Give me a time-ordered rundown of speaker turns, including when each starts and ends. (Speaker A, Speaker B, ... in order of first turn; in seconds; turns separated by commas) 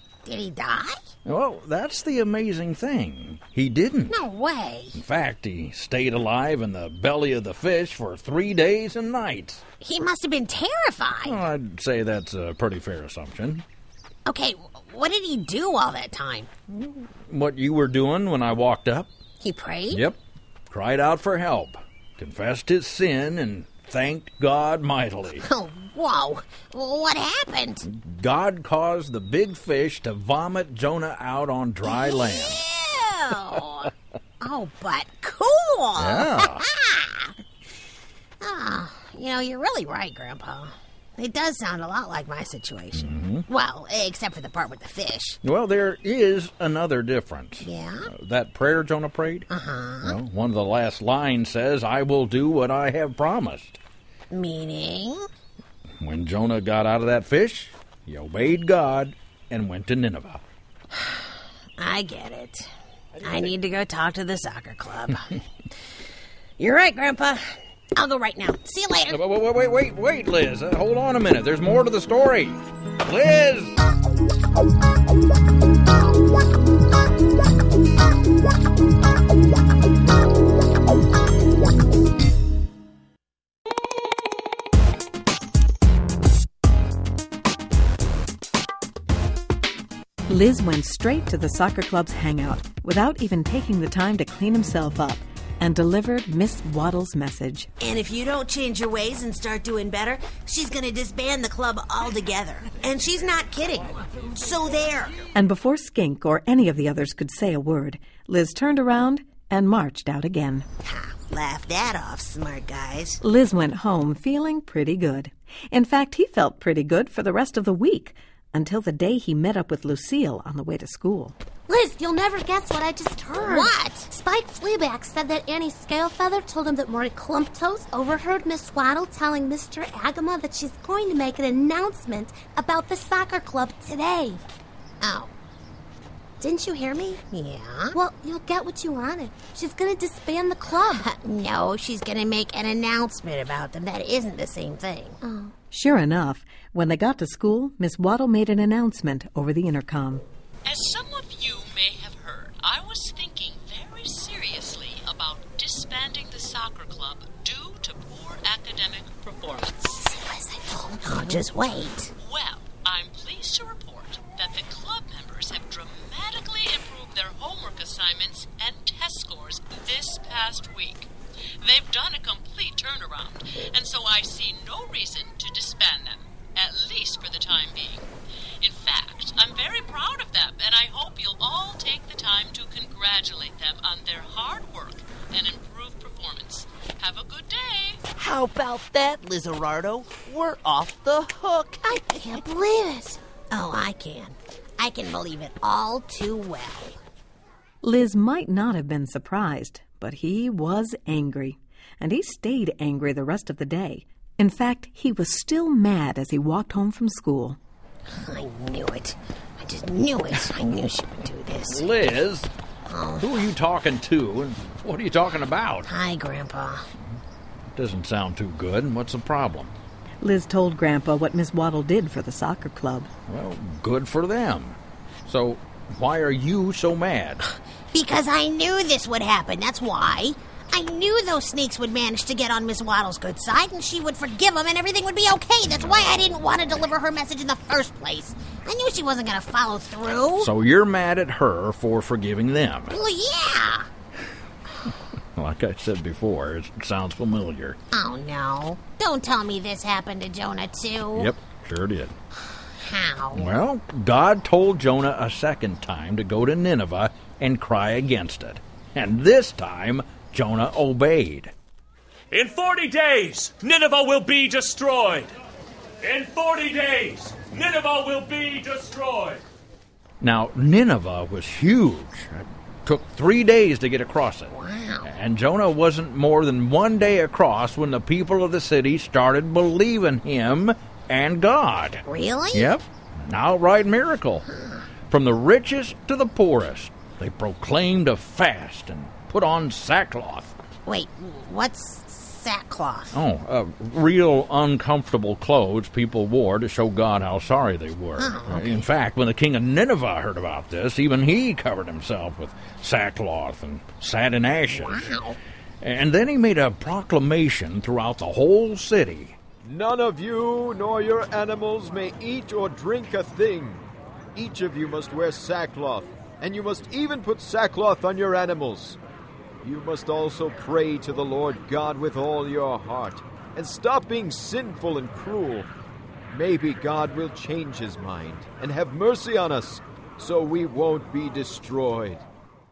Speaker A: 0.2-1.0, Speaker B: 1.2-4.2, Speaker A: 4.1-5.0, Speaker B: 5.0-9.6, Speaker A: 9.8-11.4, Speaker B: 11.2-13.6, Speaker A: 14.3-16.5, Speaker B: 16.7-19.1, Speaker A: 19.4-20.1, Speaker B: 19.9-20.2, Speaker B: 20.7-25.4, Speaker A: 25.4-27.9, Speaker B: 27.9-32.6, Speaker A: 31.8-37.4, Speaker B: 36.0-36.6, Speaker A: 38.4-45.4, Speaker B: 43.0-43.5, Speaker B: 45.4-49.5, Speaker A: 47.6-48.1, Speaker A: 49.5-50.2, Speaker B: 50.0-53.8, Speaker A: 54.3-55.3, Speaker B: 56.0-60.4, Speaker A: 61.8-62.7, Speaker A: 63.2-65.3, Speaker A: 66.6-67.4, Speaker A: 68.0-69.2, Speaker B: 69.1-73.8, Speaker C: 90.3-97.7, Speaker A: 97.8-105.2, Speaker C: 105.3-110.7, Speaker A: 110.8-113.2, Speaker C: 113.2-121.4, Speaker D: 121.7-134.4, Speaker A: 123.3-124.1, Speaker A: 135.0-135.3, Speaker D: 136.4-137.2, Speaker A: 137.3-138.0, Speaker D: 137.9-141.1, Speaker A: 140.9-145.2, Speaker D: 145.2-145.5, Speaker C: 145.7-150.2, Speaker E: 150.7-160.1, Speaker A: 160.3-162.1, Speaker E: 162.2-171.1, Speaker E: 171.6-178.1, Speaker E: 178.6-188.0, Speaker F: 188.2-192.0, Speaker D: 192.0-193.2, Speaker A: 193.5-197.0, Speaker C: 197.8-207.6, Speaker A: 208.1-211.9, Speaker B: 211.7-212.5, Speaker A: 212.9-213.3, Speaker B: 213.2-215.9, Speaker A: 215.9-216.9, Speaker B: 217.8-219.7, Speaker C: 220.2-223.1, Speaker B: 223.3-227.4, Speaker A: 227.9-240.5, Speaker B: 240.4-243.0, Speaker A: 242.9-243.9, Speaker B: 245.3-247.8, Speaker A: 247.9-251.3, Speaker B: 251.2-252.1, Speaker A: 252.8-253.5, Speaker B: 253.3-261.5, Speaker G: 262.3-265.3, Speaker G: 266.0-269.4, Speaker B: 270.2-274.5, Speaker A: 274.5-275.1, Speaker B: 275.0-284.4, Speaker A: 282.1-282.7, Speaker B: 285.1-290.5, Speaker A: 290.9-293.2, Speaker B: 293.1-305.1, Speaker A: 298.2-298.9, Speaker A: 304.7-305.4, Speaker B: 305.8-309.4, Speaker H: 309.6-313.8, Speaker H: 314.4-319.0, Speaker H: 319.6-325.7, Speaker H: 326.3-332.2